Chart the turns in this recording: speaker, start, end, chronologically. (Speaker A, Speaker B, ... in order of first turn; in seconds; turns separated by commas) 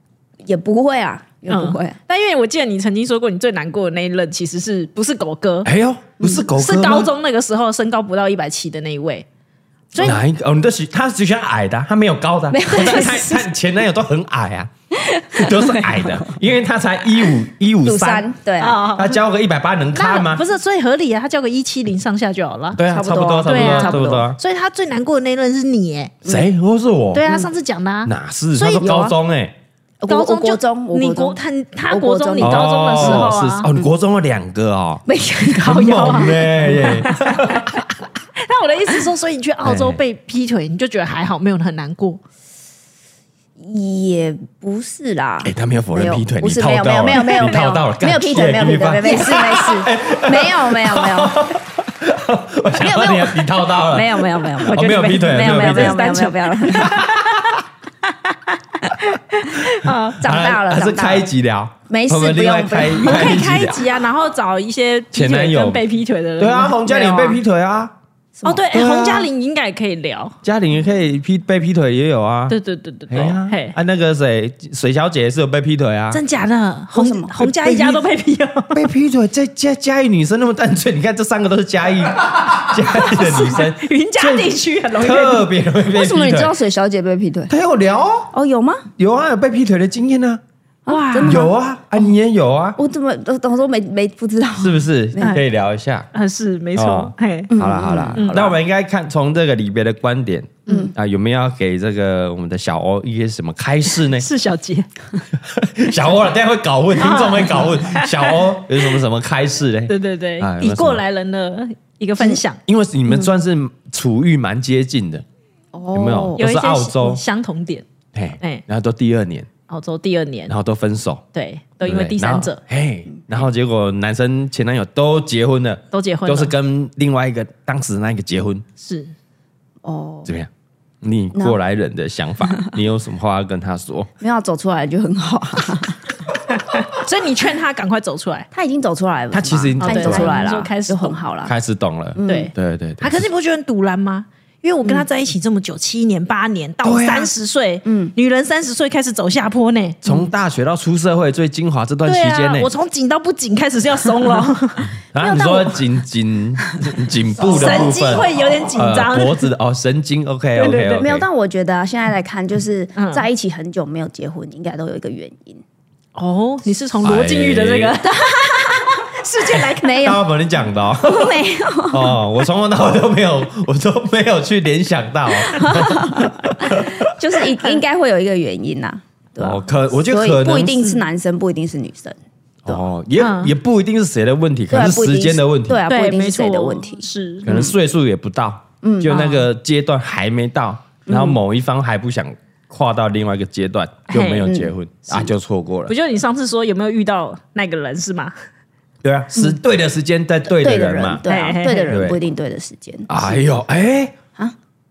Speaker A: 0.4-1.9, Speaker B: 1.5-5.7, Speaker C: 5.6-7.1, Speaker A: 6.2-6.5, Speaker B: 6.5-9.2, Speaker B: 9.9-10.2, Speaker C: 10.0-14.7, Speaker A: 12.5-13.5, Speaker A: 14.9-16.3, Speaker C: 15.3-18.3, Speaker A: 17.2-18.9, Speaker B: 18.6-19.2, Speaker C: 18.9-20.4, Speaker B: 19.9-22.8, Speaker C: 22.7-24.4, Speaker A: 22.9-24.3, Speaker B: 23.4-26.1, Speaker C: 26.2-27.2, Speaker B: 27.1-28.9, Speaker C: 28.1-29.5, Speaker A: 28.7-29.1, Speaker A: 30.0-33.3, Speaker B: 30.1-33.7, Speaker C: 32.4-35.0, Speaker A: 35.0-37.0, Speaker B: 35.6-37.6, Speaker C: 35.6-37.8, Speaker B: 38.4-42.2, Speaker C: 39.6-40.0, Speaker A: 43.6-51.5, Speaker C: 45.4-56.1, Speaker A: 52.8-57.1, Speaker B: 54.7-57.5, Speaker C: 56.8-57.6, Speaker B: 58.0-60.2, Speaker C: 59.8-63.9, Speaker A: 60.2-61.3, Speaker A: 61.9-63.4, Speaker B: 63.0-67.4, Speaker C: 65.1-65.8, Speaker C: 66.4-67.9, Speaker A: 68.4-68.7, Speaker B: 68.4-70.3, Speaker C: 68.7-69.3, Speaker C: 70.4-72.6, Speaker B: 72.5-73.8, Speaker C: 73.1-76.2, Speaker B: 76.1-78.8, Speaker A: 76.9-78.0, Speaker C: 78.7-86.5, Speaker B: 83.0-85.5, Speaker A: 85.9-87.5, Speaker C: 87.5-88.3, Speaker A: 88.3-88.9, Speaker C: 89.0-90.4, Speaker A: 90.8-91.5, Speaker B: 90.9-91.5, Speaker C: 91.2-92.8, Speaker A: 92.8-95.4, Speaker C: 94.6-96.1, Speaker B: 96.1-97.5, Speaker C: 96.8-104.2, Speaker A: 97.5-98.5, Speaker B: 98.1-98.5, Speaker A: 100.7-100.9, Speaker B: 104.1-104.9, Speaker C: 105.4-111.0, Speaker B: 107.0-108.4, Speaker B: 109.9-112.6, Speaker C: 112.7-115.2, Speaker A: 115.7-116.4, Speaker C: 115.9-117.2, Speaker B: 116.4-117.8, Speaker C: 118.1-119.5, Speaker B: 119.7-120.5, Speaker C: 120.5-121.2, Speaker B: 121.3-122.6, Speaker C: 121.8-128.6, Speaker B: 125.9-126.5, Speaker B: 128.8-129.1, Speaker A: 129.8-130.3, Speaker C: 131.0-134.1, Speaker A: 134.2-136.1, Speaker B: 136.6-138.4, Speaker A: 138.5-141.5, Speaker C: 139.3-140.5, Speaker B: 139.8-141.2, Speaker C: 141.4-143.2, Speaker A: 142.2-142.5, Speaker B: 142.2-150.0, Speaker C: 146.8-147.3, Speaker A: 147.8-148.1, Speaker C: 150.0-152.7, Speaker B: 152.0-155.6, Speaker C: 155.1-161.2, Speaker A: 155.3-155.6, Speaker B: 157.4-159.5, Speaker A: 160.6-165.6, Speaker B: 162.9-163.2, Speaker B: 166.2-170.2, Speaker C: 167.0-168.0, Speaker A: 168.1-169.0, Speaker A: 169.8-170.2, Speaker C: 170.0-177.1, Speaker A: 171.0-172.2, Speaker A: 175.4-182.2, Speaker C: 179.4-180.8, Speaker C: 182.6-185.8, Speaker B: 183.2-183.5, Speaker A: 184.7-187.7, Speaker B: 185.9-187.5, Speaker C: 187.4-195.9, Speaker A: 188.8-189.2, Speaker B: 189.1-189.4, Speaker A: 191.1-191.4, Speaker B: 194.1-194.5, Speaker A: 194.4-194.7, Speaker B: 195.9-198.3, Speaker C: 199.0-201.2, Speaker A: 200.5-203.4, Speaker B: 201.3-201.9, Speaker C: 201.9-202.2, Speaker C: 203.1-204.2